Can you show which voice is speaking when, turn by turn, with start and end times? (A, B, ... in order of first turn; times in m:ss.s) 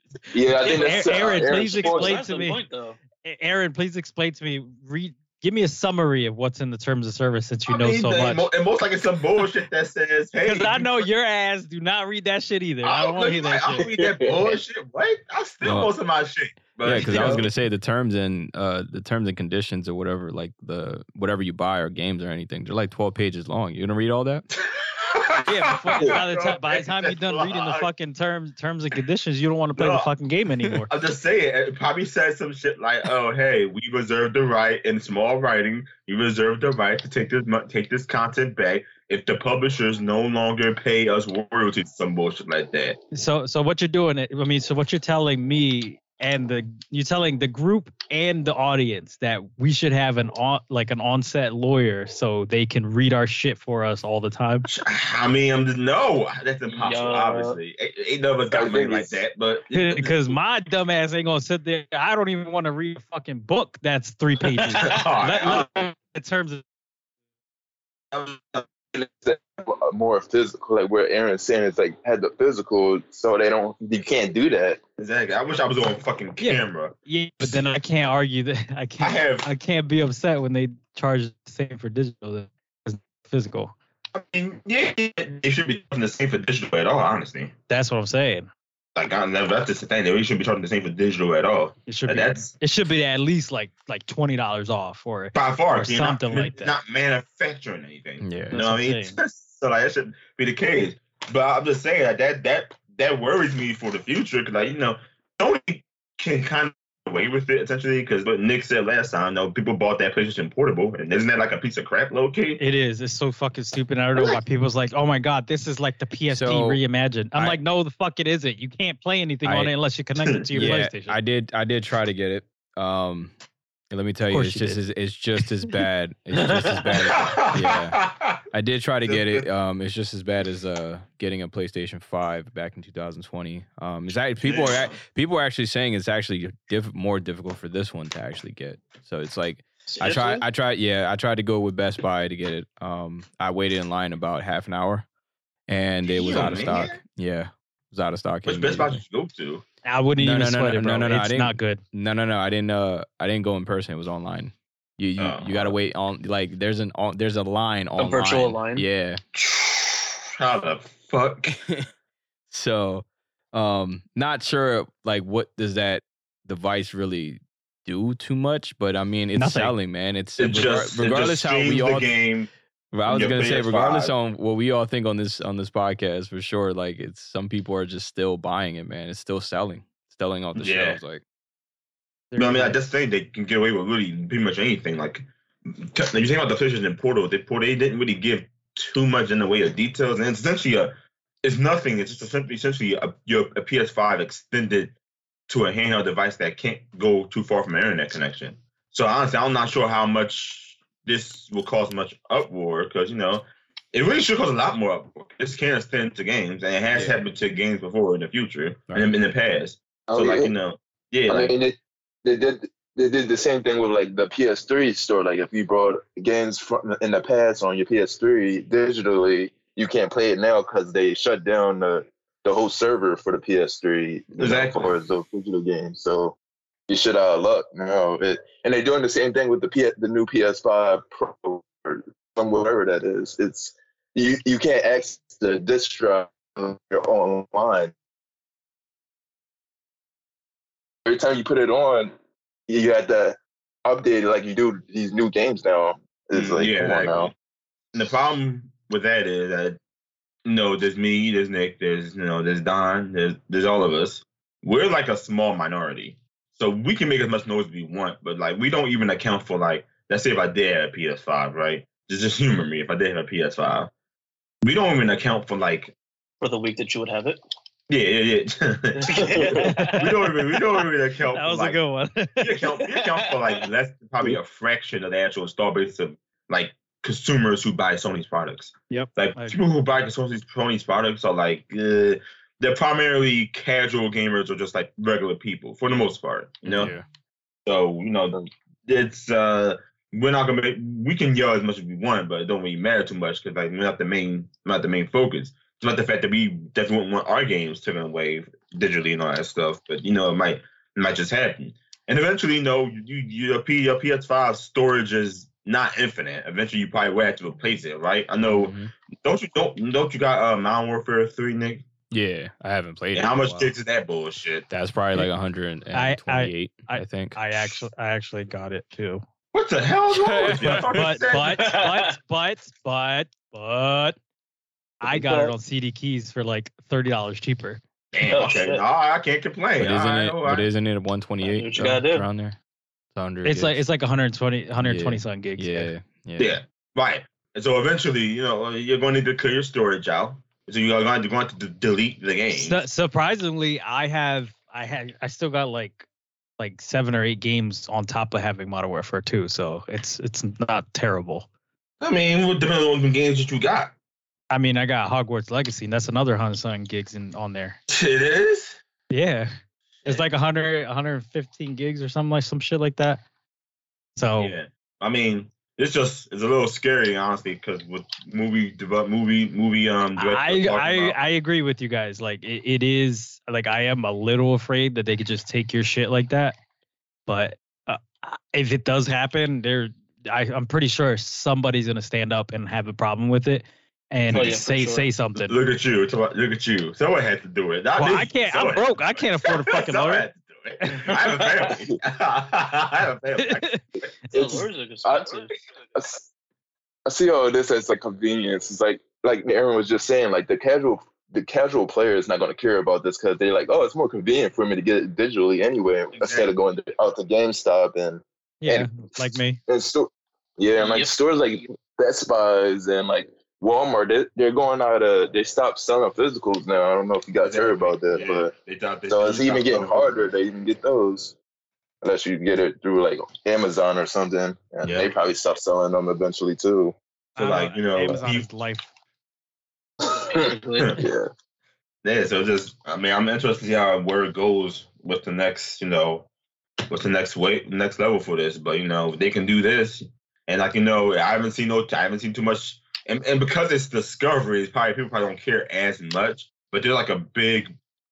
0:00.3-0:02.1 A
0:00.6-0:02.6 B
0:00.6-0:03.0 C
0:03.2-0:08.4 B
0:07.7-0:11.0 D
0:10.4-0:13.9 B
0:12.8-0:17.5 D
0:13.8-0:14.6 A
0:15.6-0:15.9 E
0:16.8-0:24.5 E
0:24.7-0:27.9 D
0:25.4-0:30.9 B
0:29.7-0:30.1 D
0:30.9-0:43.0 D
0:43.1-0:54.7 B
0:54.6-1:00.4 D
0:56.7-0:57.6 C
0:58.5-0:59.2 A
0:59.7-1:06.6 B
1:04.8-1:05.7 D
1:08.1-1:08.6 D
1:08.8-1:14.8 A
1:15.0-1:17.6 D
1:16.4-1:23.7 B
1:19.0-1:19.5 D
1:24.1-1:27.5 D
1:27.7-1:28.5 B
1:29.0-1:32.5 D
1:31.9-1:36.8 B
1:35.4-1:52.6 D
1:38.2-1:38.6 E
1:38.5-1:39.2 B
1:52.6-2:01.2 B
1:56.3-1:56.8 E
1:59.4-1:59.7 E
2:00.2-2:00.7 D
2:00.6-2:03.3 E
2:03.9-2:25.1 E
2:04.3-2:04.8 B
2:06.4-2:07.0 C
2:07.1-2:08.4 D
2:09.0-2:09.5 D
2:14.4-2:15.0 D
2:19.9-2:20.4 C
2:25.7-2:29.0 E
2:26.1-2:27.0 D
2:28.5-2:29.6 D
2:29.8-2:31.8 B
2:30.2-2:39.2 E
2:35.2-2:35.8 D
2:38.0-2:38.9 C
2:39.4-2:41.6 D
2:42.5-2:52.1 E
2:49.4-2:49.8 B
2:50.4-2:52.5 D
2:52.9-3:01.2 E
2:53.1-2:54.2 D
3:00.5-3:01.0 D
3:02.3-3:02.8 B
3:02.4-3:14.9 D
3:15.5-3:31.5 D
3:26.9-3:27.2 E
3:30.1-3:30.5 A
3:31.3-3:46.4 A
3:44.4-3:44.9 D
3:46.9-3:57.9 A
4:01.0-4:02.1 A
4:02.7-4:07.3 A
4:06.3-4:07.3 D
4:07.9-4:09.8 D
4:10.4-4:23.9 D
4:24.6-4:25.9 D
4:26.4-4:27.4 C
4:27.9-4:31.8 D
4:29.0-4:30.1 C
4:29.6-4:30.4 B
4:31.3-4:32.7 B
4:32.4-4:46.9 D
4:33.0-4:33.4 C
4:38.9-4:39.6 B
4:46.6-4:47.0 E
4:47.7-5:11.8 D
5:08.4-5:08.9 E
5:12.1-5:13.7 E
5:13.2-5:14.7 D
5:14.7-5:17.8 E
5:15.9-5:19.2 B
5:19.5-5:21.8 D
5:20.2-5:21.0 E
5:20.4-5:24.2 B
5:21.6-5:22.1 C
5:25.0-5:27.8 B
5:25.0-5:25.5 C
5:28.1-5:30.7 D
5:28.3-5:28.8 C
5:29.8-5:32.6 E
5:31.4-5:32.3 C
5:33.2-5:33.8 E
5:33.4-5:35.9 B
5:34.8-5:36.6 E
5:36.4-5:42.8 D
5:42.5-5:46.1 B
5:46.6-5:51.5 B
5:52.0-5:53.9 D
5:54.5-5:57.8 B
5:57.9-5:58.8 D
5:59.1-5:59.5 B
6:00.0-6:03.2 B
6:04.2-6:04.6 B
6:04.4-6:11.2 D
6:10.2-6:16.6 B
6:17.3-6:25.6 B
6:24.3-6:25.1 C
6:25.4-6:33.8 D
6:27.9-6:30.3 B
6:30.8-6:31.2 B
6:33.4-6:33.8 B
6:34.3-6:35.6 C
6:34.3-6:36.3 A
6:37.1-6:49.0 A
6:46.1-6:46.5 D
6:48.6-6:49.6 B
6:49.7-6:58.5 A
6:50.8-6:51.1 C
6:57.4-7:00.3 D
6:59.1-7:01.4 A
7:02.0-7:07.0 A
7:07.4-7:08.9 B
7:07.4-7:08.5 D
7:10.0-7:11.0 C
7:11.0-7:11.3 A
7:12.0-7:16.3 D
7:16.9-7:27.8 D